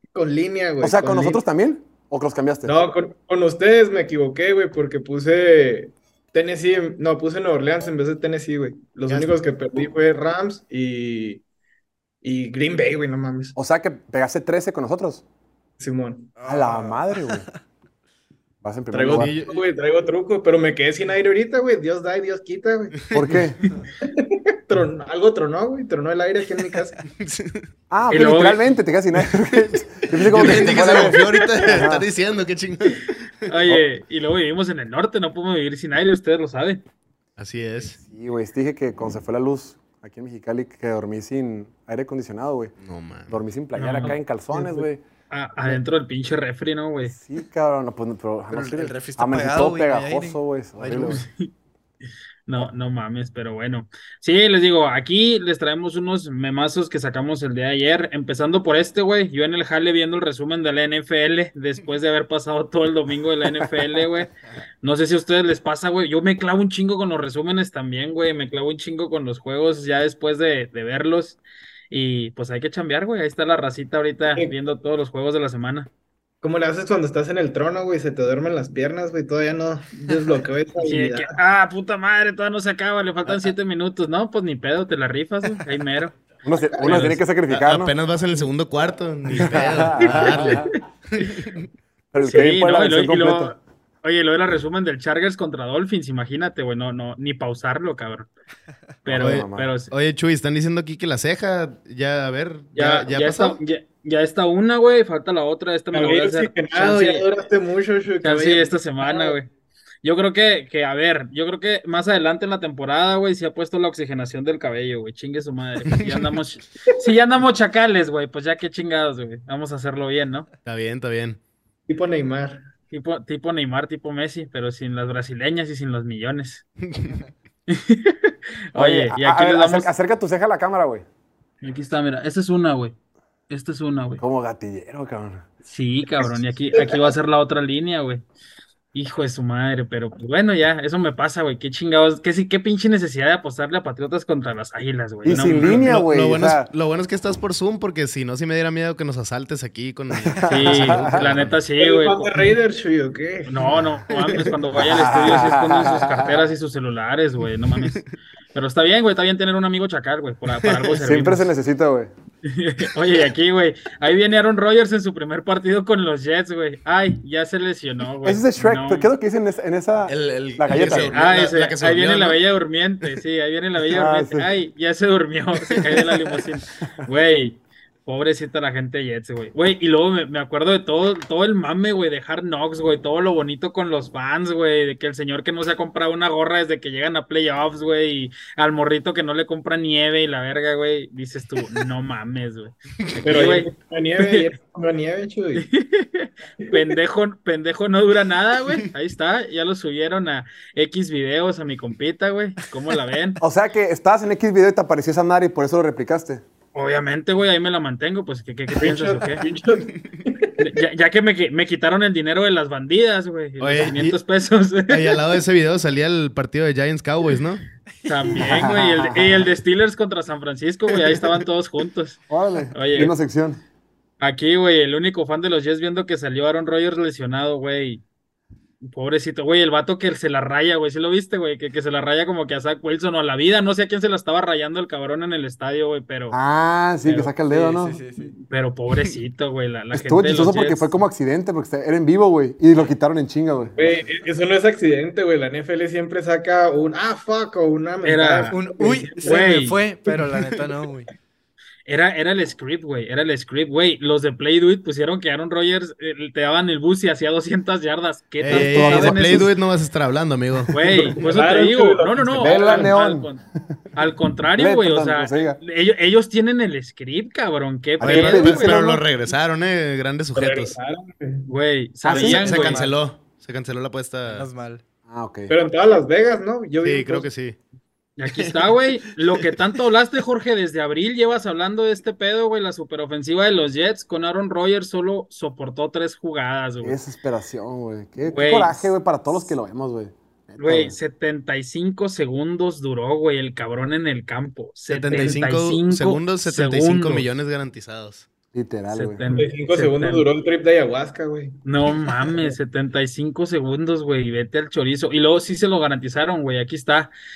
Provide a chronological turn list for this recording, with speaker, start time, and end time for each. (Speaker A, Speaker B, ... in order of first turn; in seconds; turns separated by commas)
Speaker A: 0.1-1.4, Speaker B: 0.8-2.7, Speaker A: 2.6-11.4, Speaker C: 9.1-9.3, Speaker A: 12.2-13.6, Speaker B: 13.5-15.2, Speaker A: 15.8-16.3, Speaker D: 16.4-17.5, Speaker B: 16.4-17.5, Speaker B: 18.6-19.3, Speaker A: 18.9-23.1, Speaker C: 19.1-19.6, Speaker B: 23.1-23.7, Speaker A: 24.0-27.0, Speaker C: 27.2-27.7, Speaker B: 27.9-32.0, Speaker E: 28.1-28.6, Speaker C: 30.1-33.5, Speaker E: 33.5-36.8, Speaker C: 37.4-38.0, Speaker B: 38.0-42.7, Speaker C: 42.8-43.4, Speaker B: 43.3-45.0, Speaker E: 43.8-47.1, Speaker B: 47.1-51.2, Speaker D: 48.5-51.2, Speaker E: 51.1-51.5, Speaker E: 52.5-64.3, Speaker E: 64.8-75.9, Speaker A: 76.4-81.3, Speaker E: 80.8-86.1, Speaker B: 86.4-87.9, Speaker E: 86.8-87.2, Speaker C: 87.5-91.7, Speaker B: 89.4-90.7, Speaker E: 90.0-90.8, Speaker B: 92.1-93.5, Speaker E: 92.2-98.3, Speaker E: 99.0-99.9, Speaker B: 99.0-99.7, Speaker C: 99.1-103.6, Speaker E: 102.7-107.3, Speaker A: 105.9-109.3, Speaker E: 108.2-109.5, Speaker E: 110.0-120.5, Speaker C: 120.6-121.4, Speaker A: 121.9-122.7, Speaker E: 122.9-126.6, Speaker C: 126.8-127.2, Speaker E: 127.7-129.9, Speaker B: 128.7-131.0, Speaker E: 131.6-132.9, Speaker E: 133.5-134.2, Speaker B: 134.2-135.5, Speaker E: 135.6-138.2, Speaker A: 136.7-137.1, Speaker E: 138.9-145.9, Speaker B: 145.2-146.7, Speaker C: 145.4-151.6, Speaker B: 150.2-151.4, Speaker E: 150.4-152.5, Speaker A: 151.8-154.5, Speaker E: 153.5-161.5, Speaker C: 154.1-154.4, Speaker B: 154.9-156.5, Speaker C: 157.8-158.1, Speaker C: 160.6-160.9, Speaker B: 161.0-162.1, Speaker E: 162.4-169.1, Speaker B: 168.2-171.2, Speaker C: 170.1-172.4, Speaker E: 170.7-194.5, Speaker B: 173.9-174.5, Speaker A: 193.2-195.7, Speaker E: 195.5-203.4, Speaker B: 203.4-206.4, Speaker E: 206.7-209.4, Speaker A: 208.7-210.6, Speaker E: 210.6-215.2, Speaker C: 213.6-214.2, Speaker C: 214.9-217.6, Speaker D: 218.0-218.6, Speaker E: 218.1-222.2, Speaker B: 218.4-219.5, Speaker B: 222.3-223.6, Speaker E: 222.7-223.1, Speaker E: 224.2-228.0, Speaker E: 228.8-236.4, Speaker B: 236.3-238.0, Speaker D: 237.1-238.3, Speaker E: 238.4-241.0, Speaker B: 239.9-244.0, Speaker A: 243.8-249.4, Speaker E: 248.0-248.6, Speaker D: 248.5-251.1, Speaker E: 249.2-249.8, Speaker E: 251.8-259.5, Speaker C: 258.4-261.1, Speaker B: 258.5-259.5, Speaker E: 260.7-263.4, Speaker A: 260.9-262.9, Speaker B: 262.4-263.3, Speaker E: 263.9-268.8, Speaker B: 264.6-265.6, Speaker B: 268.0-269.0, Speaker C: 268.0-270.8, Speaker A: 270.3-271.5, Speaker E: 271.5-272.9, Speaker B: 272.0-272.5, Speaker D: 272.1-272.9, Speaker C: 272.1-274.4, Speaker D: 274.2-274.8, Speaker B: 275.1-275.5, Speaker A: 275.5-277.3, Speaker C: 276.8-277.6, Speaker E: 278.2-287.0, Speaker C: 278.2-279.5, Speaker B: 286.8-290.9, Speaker E: 288.2-288.9, Speaker E: 290.6-297.2, Speaker C: 294.9-298.3, Speaker B: 298.5-299.2, Speaker E: 298.9-300.3, Speaker A: 299.3-302.5, Speaker E: 301.6-307.1